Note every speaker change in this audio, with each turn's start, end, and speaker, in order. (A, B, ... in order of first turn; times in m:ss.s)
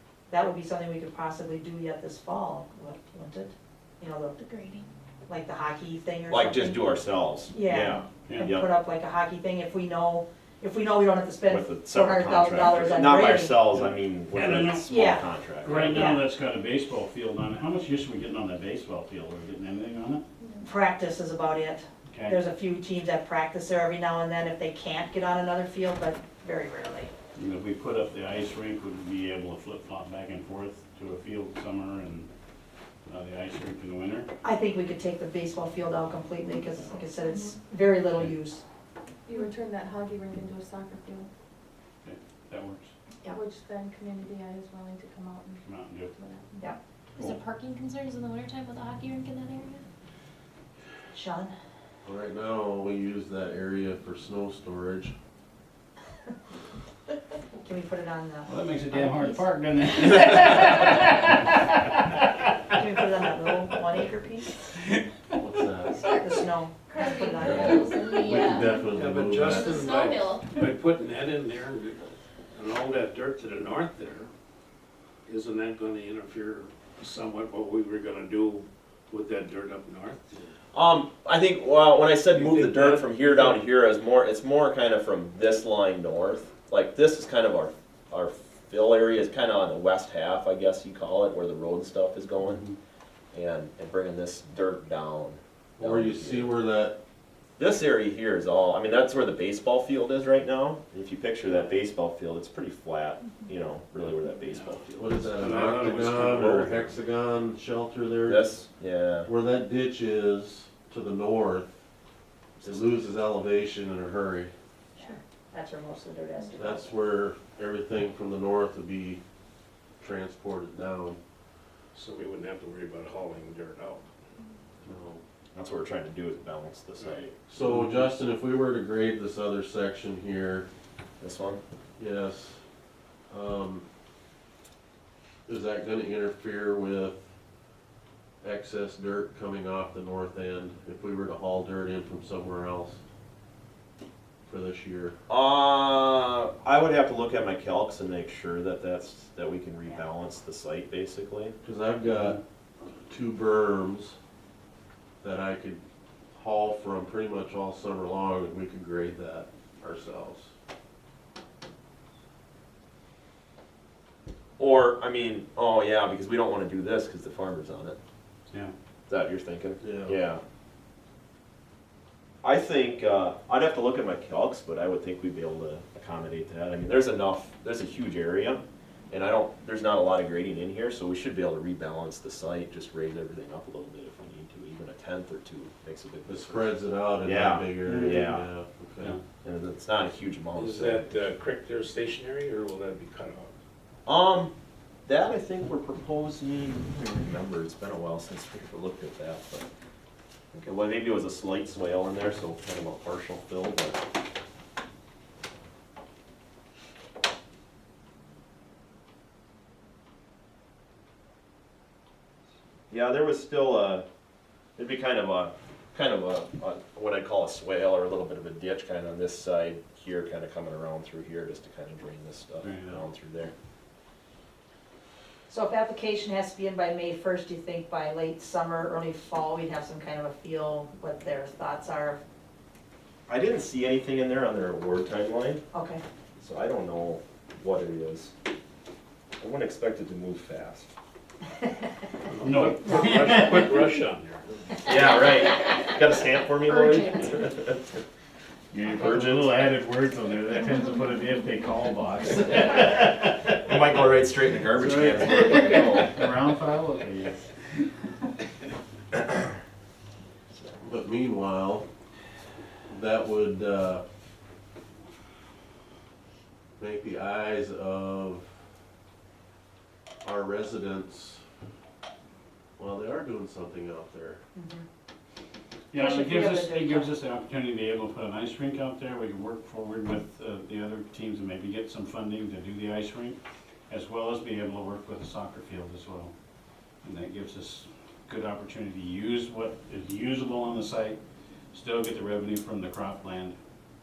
0:00.3-0:04.4 A
0:04.4-0:04.9 B
0:05.3-0:06.8 A
0:06.3-0:08.7 C
0:07.5-0:13.5 A
0:08.2-0:08.5 D
0:11.5-0:16.1 C
0:13.7-0:14.9 D
0:14.9-0:16.2 A
0:15.6-0:20.2 D
0:20.6-0:27.1 A
0:22.1-0:22.4 D
0:27.3-0:32.3 D
0:33.1-0:34.3 D
0:34.4-0:38.6 A
0:37.3-0:37.6 E
0:39.2-0:41.3 E
0:42.0-0:42.9 D
0:43.2-0:45.6 E
0:45.6-0:46.1 D
0:46.1-0:46.7 E
0:47.1-0:49.8 B
0:51.1-0:51.5 A
0:52.0-0:55.1 F
0:57.6-0:59.4 A
0:58.5-1:01.6 D
1:02.7-1:04.6 A
1:05.4-1:06.1 F
1:06.1-1:06.4 B
1:06.2-1:08.2 A
1:06.9-1:08.9 B
1:07.4-1:09.8 F
1:09.0-1:11.0 G
1:09.0-1:10.0 D
1:09.5-1:10.5 B
1:10.6-1:12.0 D
1:12.6-1:14.2 D
1:15.3-1:18.6 D
1:19.1-1:20.4 D
1:20.7-1:32.6 C
1:22.4-1:23.5 D
1:22.4-1:23.5 G
1:32.4-1:32.8 D
1:33.3-1:36.5 C
1:35.8-1:37.0 F
1:37.6-1:44.8 C
1:43.9-1:46.9 D
1:45.0-1:48.5 F
1:46.2-1:46.7 C
1:48.2-1:49.3 C
1:49.2-1:51.7 F
1:52.6-1:52.8 C
1:52.6-1:54.5 F
1:55.0-1:56.9 A
1:56.6-1:59.2 F
2:00.0-2:01.2 F
2:02.0-2:04.0 G
2:02.0-2:02.7 D
2:04.8-2:05.2 F
2:05.5-2:07.3 C
2:07.5-2:10.7 F
2:07.6-2:08.1 D
2:11.2-2:11.6 C
2:12.0-2:12.6 F
2:13.3-2:13.8 F
2:15.4-2:17.2 F
2:18.4-2:23.0 F
2:24.4-2:25.2 F
2:25.3-2:31.5 C
2:31.6-2:32.4 F
2:32.0-2:32.4 D
2:33.1-2:34.1 F
2:35.2-2:35.8 F
2:36.3-2:40.5 F
2:44.6-2:48.0 C
2:49.1-2:50.4 C
2:49.8-2:50.2 F
2:52.4-3:06.7 C
3:06.3-3:09.2 F
3:07.2-3:08.5 C
3:07.8-3:08.2 D
3:09.4-3:11.2 C
3:10.6-3:13.5 G
3:10.6-3:11.3 D
3:14.0-3:14.5 C
3:15.0-3:19.7 C
3:20.5-3:24.0 C
3:32.9-3:34.0 C
3:34.8-3:43.5 C
3:42.6-3:43.0 D
3:45.5-3:52.2 A
3:53.3-3:55.6 C
3:55.7-3:56.0 A
3:56.4-3:58.3 C
3:59.4-4:00.9 C
4:02.3-4:04.9 G
4:02.4-4:04.1 D
4:04.8-4:08.0 C
4:06.6-4:07.3 B
4:08.7-4:13.7 D
4:08.8-4:09.5 C
4:13.6-4:16.2 C
4:14.7-4:17.8 D
4:20.8-4:21.8 F
4:22.9-4:24.0 F
4:26.8-4:28.5 F
4:30.2-4:31.4 F
4:32.8-4:34.4 F
4:34.5-4:34.8 A
4:35.9-4:46.3 D
4:35.9-4:37.1 A
4:47.0-4:51.2 D
4:51.7-4:53.6 D